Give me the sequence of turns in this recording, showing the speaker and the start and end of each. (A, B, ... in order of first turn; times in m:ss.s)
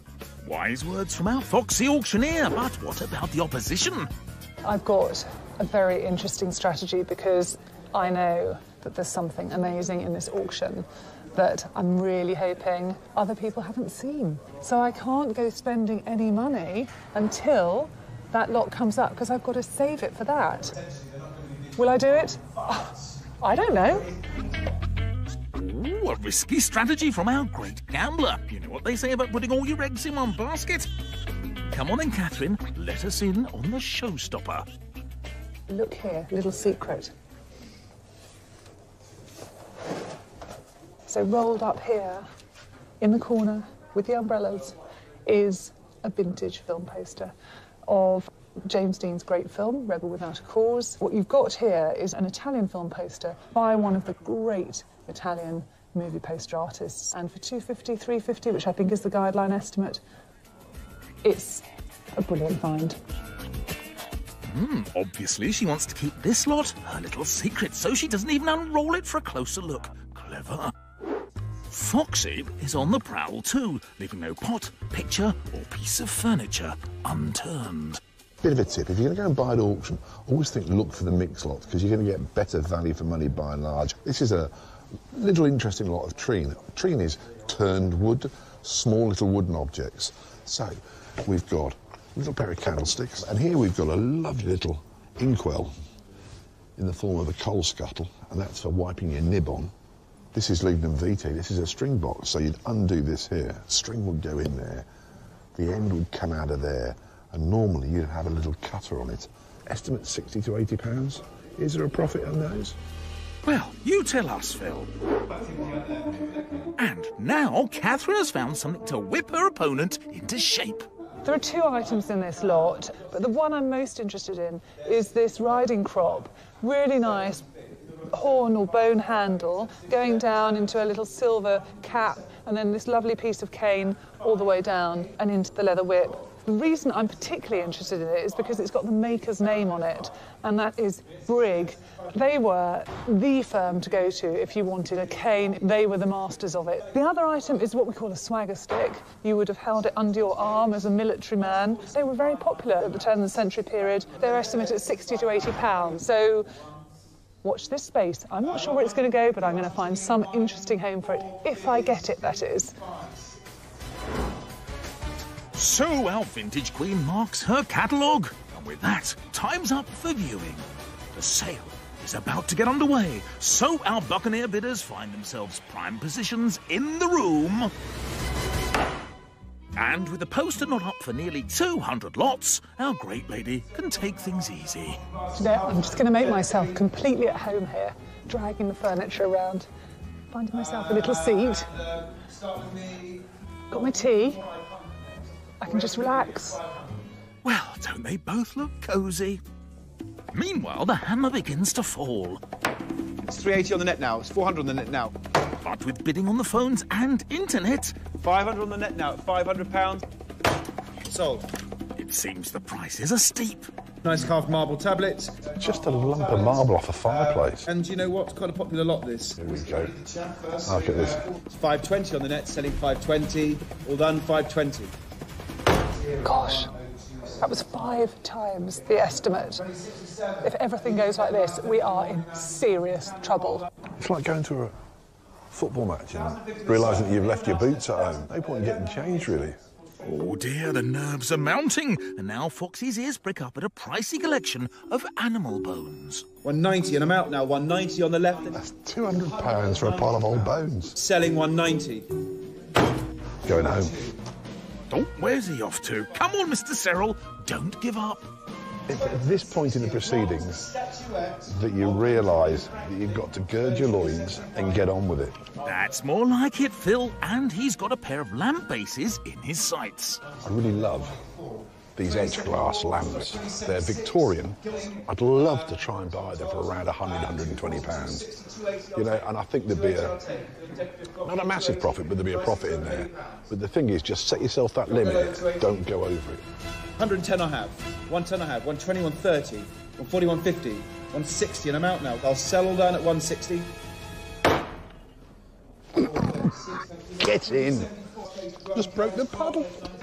0:00.4-0:04.1 A
0:04.6-0:20.8 B
0:21.8-0:22.8 B
0:23.4-0:24.1 B
0:25.5-0:30.9 A
0:31.7-0:34.7 A
0:35.7-0:37.1 B
0:41.1-0:42.2 B
0:43.0-0:44.8 B
0:45.3-0:47.3 B
0:47.9-1:00.0 B
1:01.2-1:01.6 B
1:02.2-1:03.0 B
1:04.5-1:10.7 A
1:11.7-1:18.0 A
1:18.4-1:24.5 C
1:25.1-1:35.7 C
1:36.8-1:39.7 C
1:40.3-1:44.9 C
1:45.6-1:52.8 C
1:53.4-1:54.9 A
1:56.8-2:00.9 A
2:01.2-2:07.5 B
2:08.0-2:36.5 B
2:37.4-2:42.8 B
2:45.5-2:57.7 A
2:59.8-3:05.0 A
3:05.1-3:06.6 D
3:05.4-3:09.7 B
3:10.3-3:11.7 B
3:10.7-3:13.3 D
3:13.7-3:14.4 B
3:14.4-3:15.1 D
3:15.6-3:16.6 B
3:15.6-3:16.9 D
3:17.4-3:19.4 A
3:20.3-3:22.4 A
3:23.2-3:25.1 D
3:25.6-3:28.0 A
3:28.2-3:30.1 D
3:31.1-3:31.5 D
3:32.0-3:33.7 A
3:34.0-3:36.6 D
3:35.6-3:37.7 C
3:37.6-3:44.9 D
3:39.4-3:40.0 C
3:40.6-3:41.2 C
3:46.2-3:46.7 B
3:47.4-3:49.7 B
3:50.4-3:53.7 B
3:54.0-3:54.8 C
3:55.5-3:59.6 C
3:56.5-3:58.9 D
4:00.0-4:06.2 A
4:06.4-4:08.6 D
4:08.5-4:11.0 C
4:09.6-4:10.4 D
4:11.0-4:12.1 D
4:13.4-4:14.0 C
4:14.9-4:18.2 A
4:18.9-4:20.7 C
4:18.9-4:24.7 D
4:21.5-4:25.4 C
4:25.6-4:30.2 A
4:30.4-4:31.2 C
4:31.2-4:39.2 D
4:32.0-4:38.3 C
4:39.0-4:40.2 C
4:39.7-4:43.4 D
4:41.2-4:46.4 C
4:44.9-4:45.7 D
4:47.0-4:53.7 D
4:56.0-4:59.5 D
4:57.2-4:57.9 C
4:58.7-4:59.9 C